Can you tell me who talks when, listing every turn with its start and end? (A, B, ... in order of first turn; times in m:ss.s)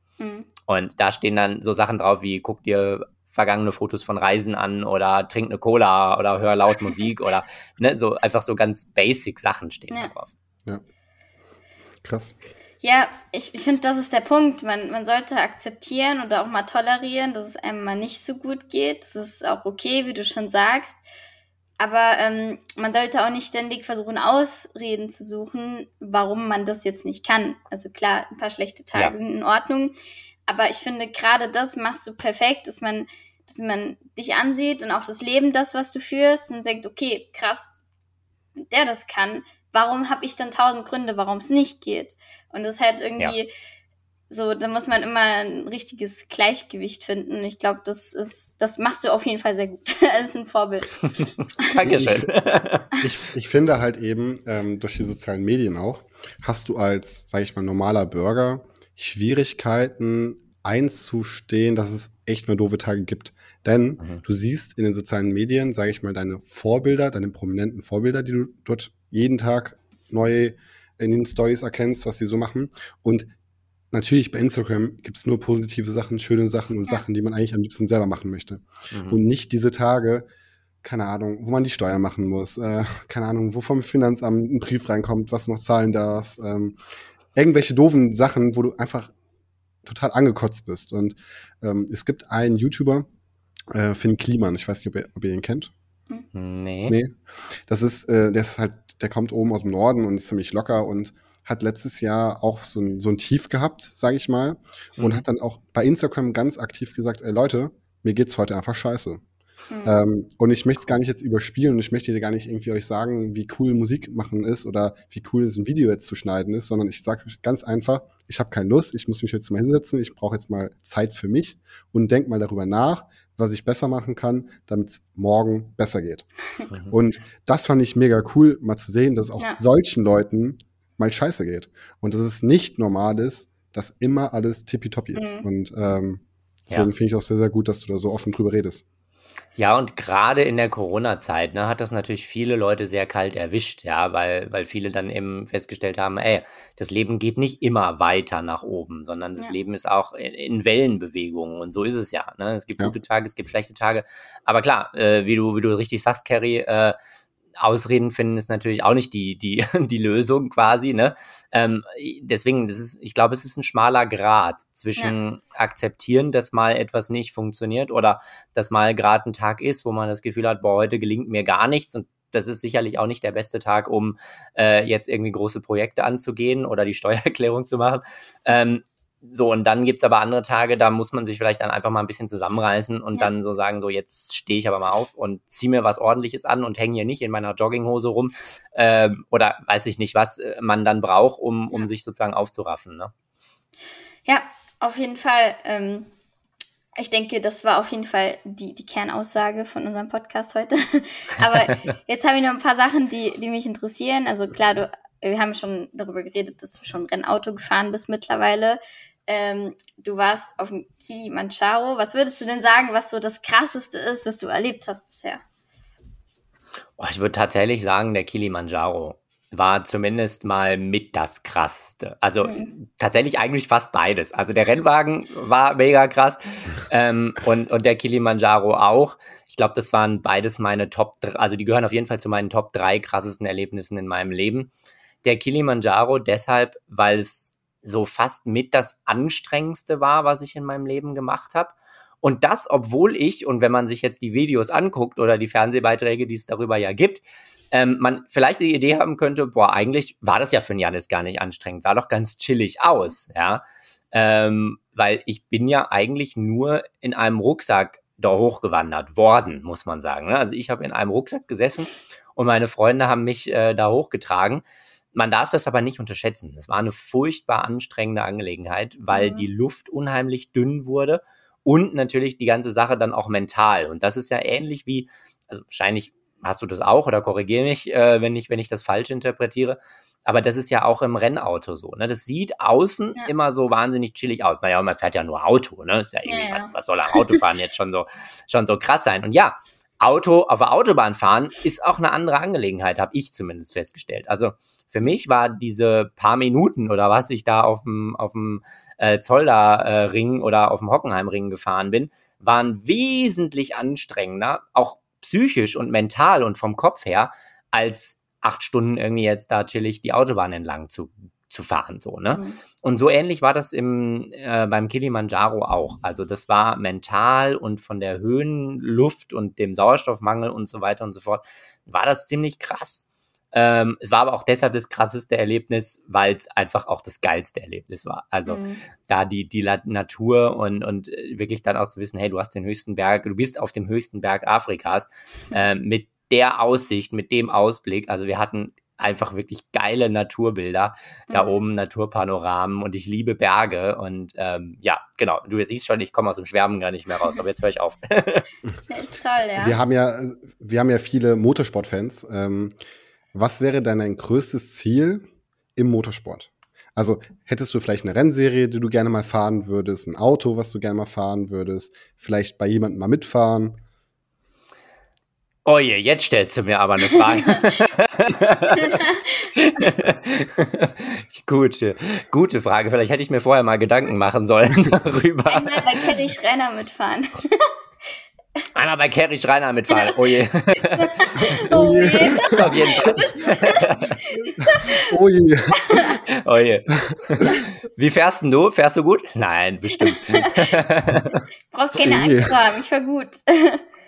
0:00.2-0:00.5 A
0:00.7-0:10.3 B
0:12.0-0:12.4 C
0:12.8-0:21.0 A
0:21.8-0:30.0 A
0:30.5-0:37.7 A
0:38.6-0:43.5 A
0:44.3-0:51.0 A
0:51.3-0:52.9 B
0:51.8-0:52.3 C
0:52.9-1:13.3 C
1:13.9-1:20.2 C
1:18.9-1:19.2 B
1:20.8-1:26.8 C
1:27.3-1:29.1 C
1:29.8-1:33.0 C
1:33.7-1:35.7 C
1:36.3-1:37.0 B
1:36.9-1:37.1 C
1:37.7-1:49.2 C
1:45.0-1:45.2 B
1:49.7-1:50.0 A
1:49.8-2:06.3 C
2:06.9-2:18.8 C
2:15.2-2:15.4 A
2:19.6-2:37.0 B
2:37.6-3:13.1 B
3:14.3-3:16.1 A
3:17.0-3:35.4 A
3:37.0-3:54.7 B
3:42.4-3:42.7 A
3:55.2-5:48.4 B
4:29.1-4:29.5 A
4:46.3-4:47.4 A
5:28.5-5:28.8 A
5:41.3-5:41.6 A
5:48.9-5:49.8 A
5:49.6-5:52.7 C
5:53.3-6:03.8 C
6:05.6-6:16.2 B
6:07.1-6:07.8 A
6:08.8-6:09.3 A
6:15.5-6:17.7 A
6:18.7-6:21.8 B
6:19.9-6:20.3 A
6:20.9-6:25.1 A
6:21.7-6:23.2 C
6:22.5-6:24.2 B
6:24.4-6:26.2 C
6:25.8-6:26.2 A
6:26.3-6:31.4 B
6:27.0-6:27.5 C
6:30.0-6:30.7 A
6:31.7-6:33.8 A
6:32.0-6:32.6 C